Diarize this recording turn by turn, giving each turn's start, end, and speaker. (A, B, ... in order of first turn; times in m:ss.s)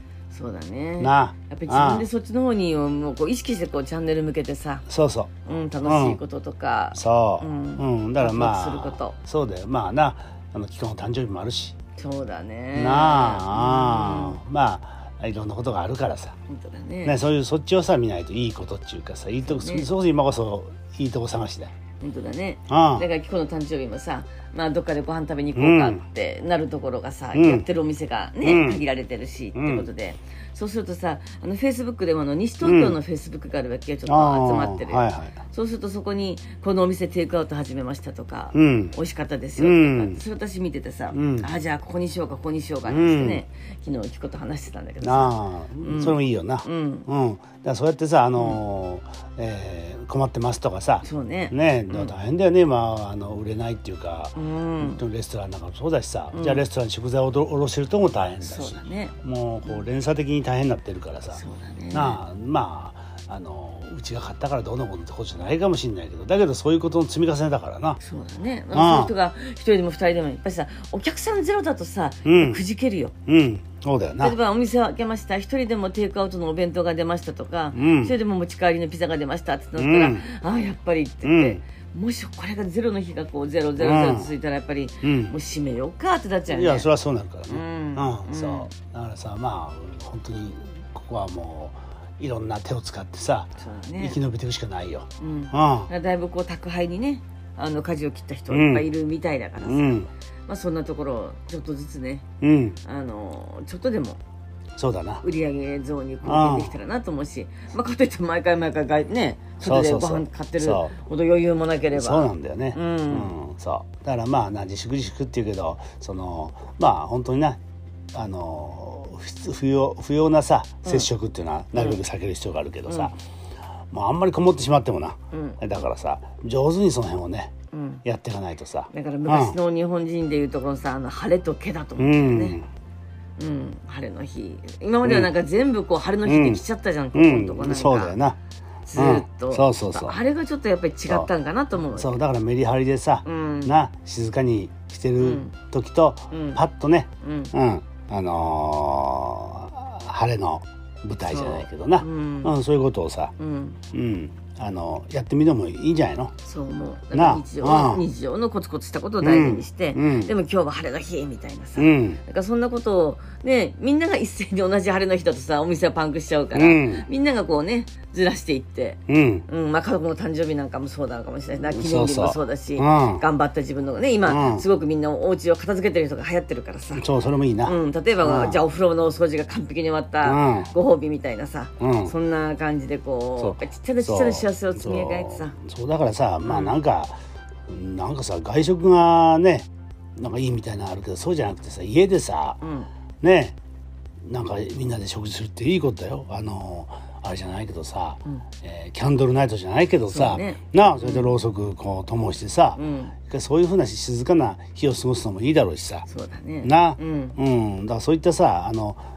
0:00.3-0:04.8 A
0:01.0-0:02.1 B
0:04.9-0:06.2 B
0:05.4-0:09.2 A
0:06.9-0:11.7 B
0:12.0-0:14.4 A
0:12.7-0:16.4 B
0:16.5-0:17.2 A
0:17.0-0:21.7 B
0:19.4-0:19.9 A
0:22.0-0:47.1 A
0:22.7-0:23.1 B
0:25.5-0:26.0 B
0:27.3-0:27.6 B
0:28.4-0:28.8 B
0:29.5-0:29.9 B
0:32.6-0:33.0 B
0:34.1-0:35.4 B
0:38.5-0:39.0 B
0:39.6-0:40.2 B
0:41.1-0:41.5 B
0:42.8-0:43.4 B
0:45.0-1:08.0 B
0:51.0-0:52.1 A
0:54.4-0:55.0 A
0:56.3-0:56.6 A
0:58.4-0:59.8 A
1:01.3-1:02.2 A
1:08.0-1:13.1 A
1:08.7-1:09.1 B
1:12.2-1:12.6 B
1:13.3-1:14.4 B
1:14.2-1:26.9 A
1:17.7-1:18.2 B
1:19.8-1:20.2 B
1:21.2-1:21.6 B
1:23.8-1:24.3 B
1:25.0-1:25.4 B
1:26.5-1:35.9 B
1:27.5-1:28.7 A
1:33.6-1:34.2 A
1:35.2-1:42.2 A
1:38.5-1:38.9 B
1:39.6-1:40.1 B
1:42.4-1:42.8 B
1:42.8-1:44.2 A
1:44.8-1:45.2 B
1:45.2-1:53.3 A
1:46.2-1:46.7 B
1:49.6-1:50.9 B
1:51.9-1:57.6 B
1:58.1-2:03.1 B
2:01.7-2:02.0 A
2:02.9-2:03.1 A
2:03.9-2:07.5 B
2:05.3-2:05.6 A
2:07.7-2:08.0 A
2:08.0-2:09.6 B
2:08.9-2:12.6 A
2:12.0-2:12.6 B
2:13.4-2:18.2 A
2:15.0-2:15.3 B
2:16.2-2:16.6 B
2:17.1-2:18.4 B
2:18.9-2:22.1 A
2:19.0-2:20.2 B
2:21.9-2:33.3 B
2:23.2-2:23.8 A
2:25.2-2:25.5 A
2:26.3-2:26.6 A
2:27.2-2:27.5 A
2:31.2-2:32.5 A
2:33.4-2:33.8 A
2:33.9-2:36.3 B
2:36.4-3:05.5 A
2:37.1-2:38.0 B
2:39.2-2:40.3 B
2:41.8-2:42.2 B
2:46.5-2:47.1 B
2:49.1-2:49.4 B
2:51.7-2:53.2 B
2:54.2-2:54.6 B
2:56.9-2:58.6 B
3:00.2-3:00.7 B
3:01.8-3:02.1 B
3:03.4-3:12.6 B
3:06.4-3:06.8 A
3:12.6-3:12.9 A
3:13.2-3:13.6 B
3:14.2-3:26.0 B
3:20.1-3:21.4 A
3:22.8-3:23.1 A
3:26.1-3:27.4 A
3:26.6-3:29.0 B